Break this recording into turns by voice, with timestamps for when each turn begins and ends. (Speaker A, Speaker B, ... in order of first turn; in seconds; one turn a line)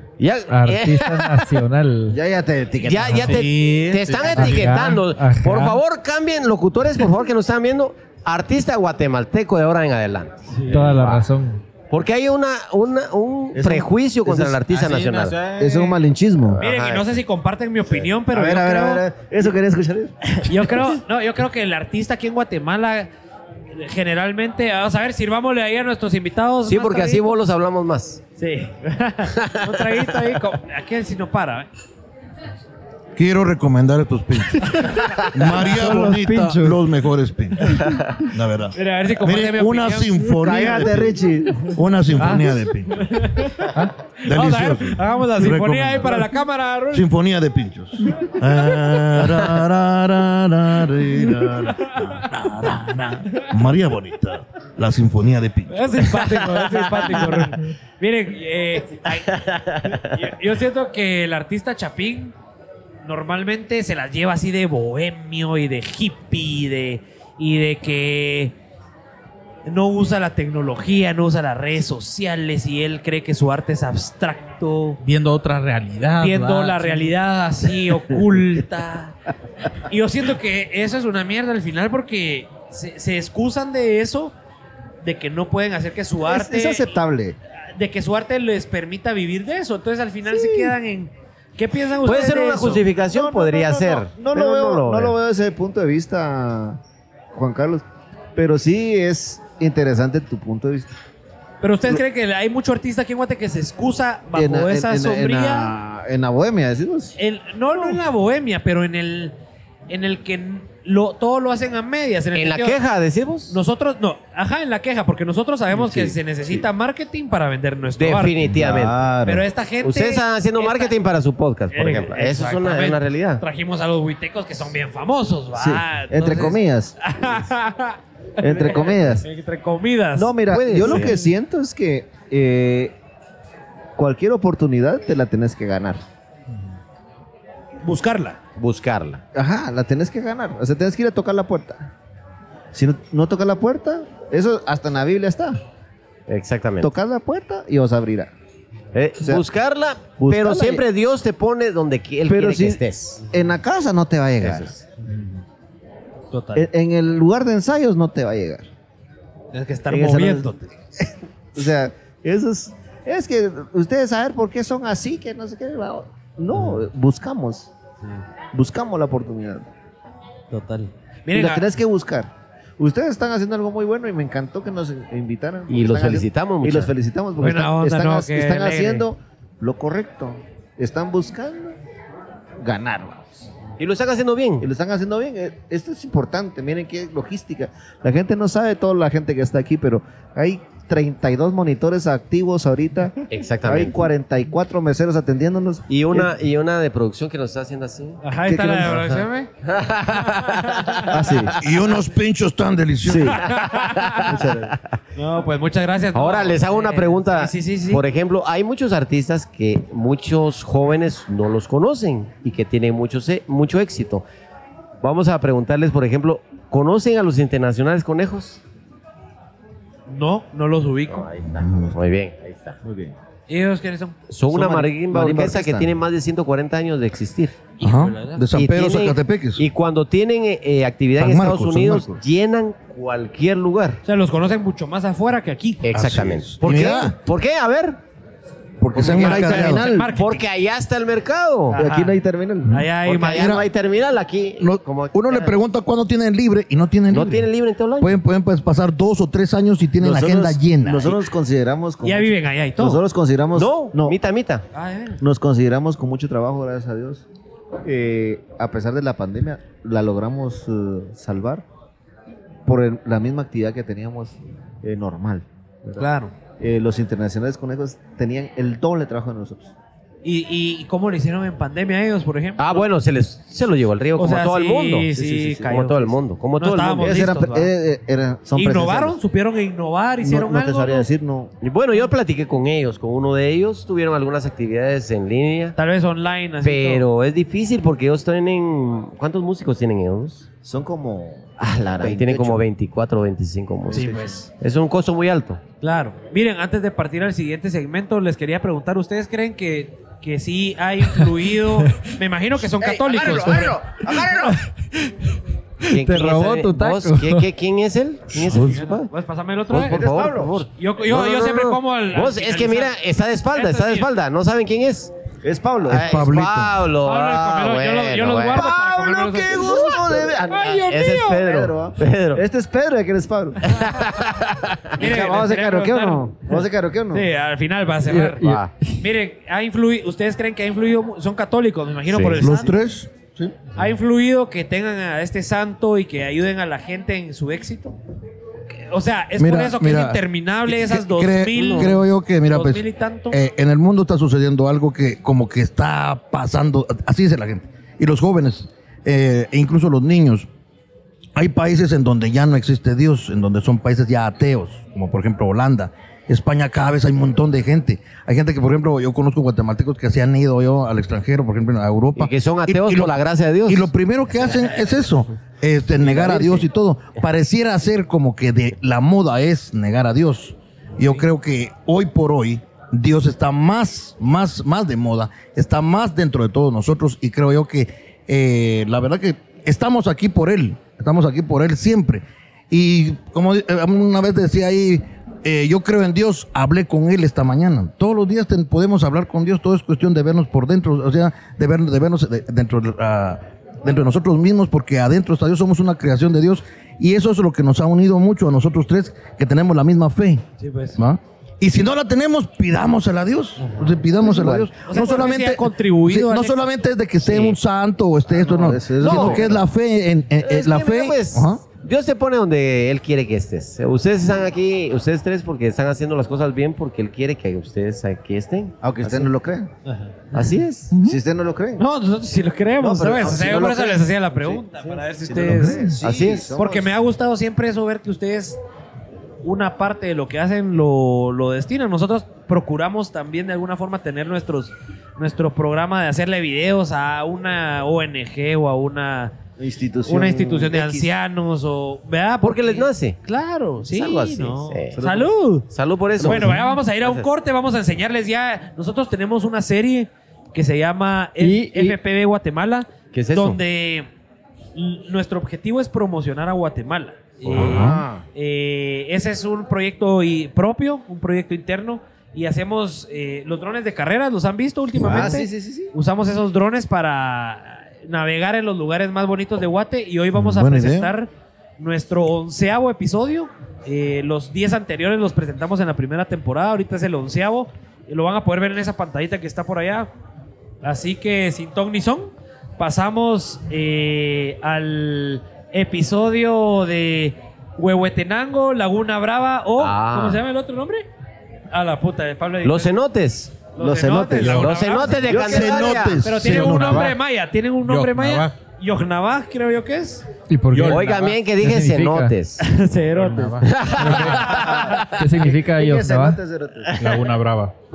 Speaker A: 0.2-1.5
Speaker B: 0.5-2.2
Speaker C: 2.1-3.5
Speaker A: 2.8-10.4
Speaker D: 3.1-5.0
Speaker B: 4.3-5.8
Speaker E: 10.5-10.9
Speaker D: 10.7-11.1
Speaker B: 10.7-11.6
Speaker A: 11.9-15.4
Speaker C: 13.5-14.6
Speaker D: 14.7-16.0
Speaker C: 15.6-16.6
Speaker A: 16.4-17.1
Speaker E: 16.6-19.0
Speaker C: 18.3-20.7
Speaker E: 20.4-23.1
Speaker E: 23.7-27.2
Speaker A: 26.7-28.2
Speaker E: 28.4-31.7
Speaker A: 29.3-30.2
Speaker F: 33.2-43.1
Speaker B: 34.7-36.8
Speaker E: 38.8-40.2
Speaker C: 40.4-41.7
Speaker E: 42.9-47.1
Speaker F: 44.2-46.3
Speaker F: 46.9-56.2
Speaker E: 51.8-52.3
Speaker E: 55.7-62.3
Speaker A: 59.3-60.0
Speaker E: 63.0-68.5
Speaker E: 69.7-75.0
Speaker D: 75.0-77.1
Speaker E: 76.2-79.2
Speaker E: 79.9-84.3
Speaker E: 85.0-86.9
Speaker C: 86.2-87.4
Speaker E: 87.8-92.8
Speaker C: 90.3-90.7
Speaker A: 92.0-95.2
Speaker C: 93.1-96.8
Speaker C: 97.3-97.8
Speaker C: 98.4-100.9
Speaker E: 101.6-105.7
Speaker C: 104.3-107.2
Speaker E: 107.2-109.3
Speaker C: 107.7-108.0
Speaker E: 109.9-112.8
Speaker A: 112.3-113.6
Speaker E: 113.5-118.4
Speaker A: 115.8-116.1
Speaker A: 118.0-119.0
Speaker C: 118.4-119.4
Speaker E: 119.2-121.0
Speaker A: 119.8-123.4
Speaker E: 121.7-131.3
Speaker C: 125.5-127.1
Speaker C: 128.4-129.3
Speaker C: 130.2-132.9
Speaker A: 130.5-131.2
Speaker C: 134.0-136.0
Speaker E: 137.8-138.4
Speaker A: 138.6-139.2
Speaker C: 139.3-141.9
Speaker C: 142.7-145.6
Speaker A: 146.3-146.9
Speaker C: 146.8-148.3
Speaker A: 148.9-153.2
Speaker C: 150.1-150.8
Speaker C: 152.3-154.7
Speaker A: 154.4-154.8
Speaker E: 156.3-156.7
Speaker C: 156.6-158.7
Speaker E: 159.5-160.7
Speaker C: 159.9-167.7
Speaker E: 166.5-166.8
Speaker C: 168.5-169.7
Speaker E: 170.5-171.6
Speaker C: 171.3-181.8
Speaker A: 175.7-176.9
Speaker E: 177.4-179.1
Speaker C: 182.6-183.4
Speaker A: 183.8-184.7
Speaker C: 184.6-196.3
Speaker A: 193.3-194.1
Speaker A: 195.9-198.2
Speaker E: 198.2-199.5
Speaker C: 198.5-199.1
Speaker A: 198.8-201.5
Speaker E: 200.1-201.2
Speaker C: 201.1-201.5
Speaker F: 201.6-203.4
Speaker C: 203.0-203.4
Speaker E: 203.4-204.3
Speaker A: 203.5-204.5
Speaker C: 204.2-204.8
Speaker E: 205.2-208.0
Speaker A: 206.1-214.2
Speaker A: 215.0-218.6
Speaker E: 220.1-221.3
Speaker A: 221.1-222.8
Speaker F: 221.4-222.0
Speaker C: 222.8-223.2
Speaker E: 223.5-224.9
Speaker A: 224.3-227.7
Speaker C: 225.1-226.0
Speaker E: 227.8-228.4
Speaker F: 227.8-229.6
Speaker A: 228.5-234.0
Speaker F: 231.2-232.1
Speaker E: 234.1-235.8
Speaker A: 235.8-238.0
Speaker F: 235.9-237.2
Speaker F: 238.8-240.1
Speaker A: 239.0-241.8
Speaker C: 239.0-240.1
Speaker E: 239.0-240.4
Speaker E: 241.7-242.2
Speaker C: 241.7-242.9
Speaker E: 242.7-243.6
Speaker A: 243.0-245.6
Speaker F: 243.4-243.6
Speaker F: 244.6-247.5
Speaker A: 247.1-248.2
Speaker F: 248.0-251.2
Speaker C: 250.0-254.2
Speaker E: 252.0-253.0
Speaker A: 253.6-254.7
Speaker E: 254.7-255.2
Speaker C: 255.2-257.2
Speaker C: 257.9-261.6
Speaker C: 262.7-266.1
Speaker E: 266.0-266.3
Speaker C: 266.6-269.7
Speaker E: 270.2-272.9
Speaker A: 272.6-277.1
Speaker E: 274.2-277.7
Speaker C: 275.1-275.7
Speaker C: 277.0-279.2
Speaker E: 278.6-281.1
Speaker C: 280.2-281.5
Speaker A: 281.6-285.8
Speaker E: 285.8-287.0
Speaker A: 286.6-290.5
Speaker C: 290.6-292.6
Speaker A: 291.9-295.6
Speaker C: 293.9-294.3
Speaker E: 293.9-294.5
Speaker E: 295.8-303.8
Speaker C: 302.8-304.6
Speaker A: 303.1-303.5
Speaker B: 305.9-307.5
Speaker A: 305.9-309.1
Speaker F: 308.3-308.8
Speaker E: 308.6-310.0
Speaker A: 309.7-315.1
Speaker C: 309.9-310.6
Speaker E: 310.7-313.0
Speaker E: 313.5-314.1
Speaker C: 315.4-316.2
Speaker F: 315.9-316.8
Speaker A: 315.9-318.7
Speaker E: 317.0-321.4
Speaker C: 318.5-323.6
Speaker A: 320.9-322.4
Speaker A: 323.7-324.9
Speaker E: 324.9-326.6
Speaker C: 325.0-327.3
Speaker E: 327.1-328.4
Speaker B: 328.1-329.0
Speaker A: 328.4-328.7
Speaker E: 329.0-332.8
Speaker A: 332.1-332.5
Speaker F: 332.4-333.6
Speaker E: 333.8-338.0
Speaker E: 338.7-343.4
Speaker F: 339.4-350.5
Speaker A: 341.5-341.9
Speaker F: 351.4-363.2
Speaker A: 362.2-364.6
Speaker F: 363.7-400.4
Speaker A: 366.0-366.6
Speaker E: 400.6-401.0
Speaker F: 401.0-411.6
Speaker E: 403.6-404.0
Speaker C: 404.1-405.2
Speaker E: 404.8-406.6
Speaker A: 407.2-407.6
Speaker C: 408.3-409.6
Speaker A: 409.0-409.5
Speaker A: 410.4-419.3
Speaker C: 418.8-419.7
Speaker E: 419.9-420.1
Speaker A: 420.3-420.9
Speaker C: 420.4-421.9
Speaker F: 420.9-421.2
Speaker E: 421.8-425.9
Speaker C: 422.8-424.6
Speaker C: 425.3-426.9
Speaker A: 426.0-426.5
Speaker E: 426.6-428.6
Speaker E: 429.4-439.3
Speaker C: 439.6-441.1
Speaker E: 440.1-445.7
Speaker A: 442.4-443.2
Speaker A: 443.9-445.1
Speaker C: 444.9-445.3
Speaker A: 445.7-447.3
Speaker E: 446.2-454.1
Speaker B: 451.4-452.0
Speaker A: 453.1-453.6
Speaker E: 454.8-480.1
Speaker A: 457.5-457.7
Speaker C: 457.5-458.2
Speaker F: 457.5-458.1
Speaker C: 465.0-465.9
Speaker F: 470.3-471.1
Speaker E: 480.8-491.1
Speaker A: 489.8-490.4
Speaker E: 491.7-492.9
Speaker A: 492.6-493.6
Speaker E: 493.7-500.2
Speaker C: 493.8-496.0
Speaker A: 494.4-496.2
Speaker F: 495.4-497.1
Speaker D: 496.4-497.2
Speaker D: 497.9-498.5
Speaker B: 500.5-502.3
Speaker D: 500.7-501.4
Speaker A: 500.9-502.6
Speaker E: 502.6-504.9
Speaker D: 503.1-504.4
Speaker A: 503.6-505.0
Speaker B: 504.0-504.6
Speaker C: 504.4-506.9
Speaker B: 505.1-506.4
Speaker D: 507.0-507.7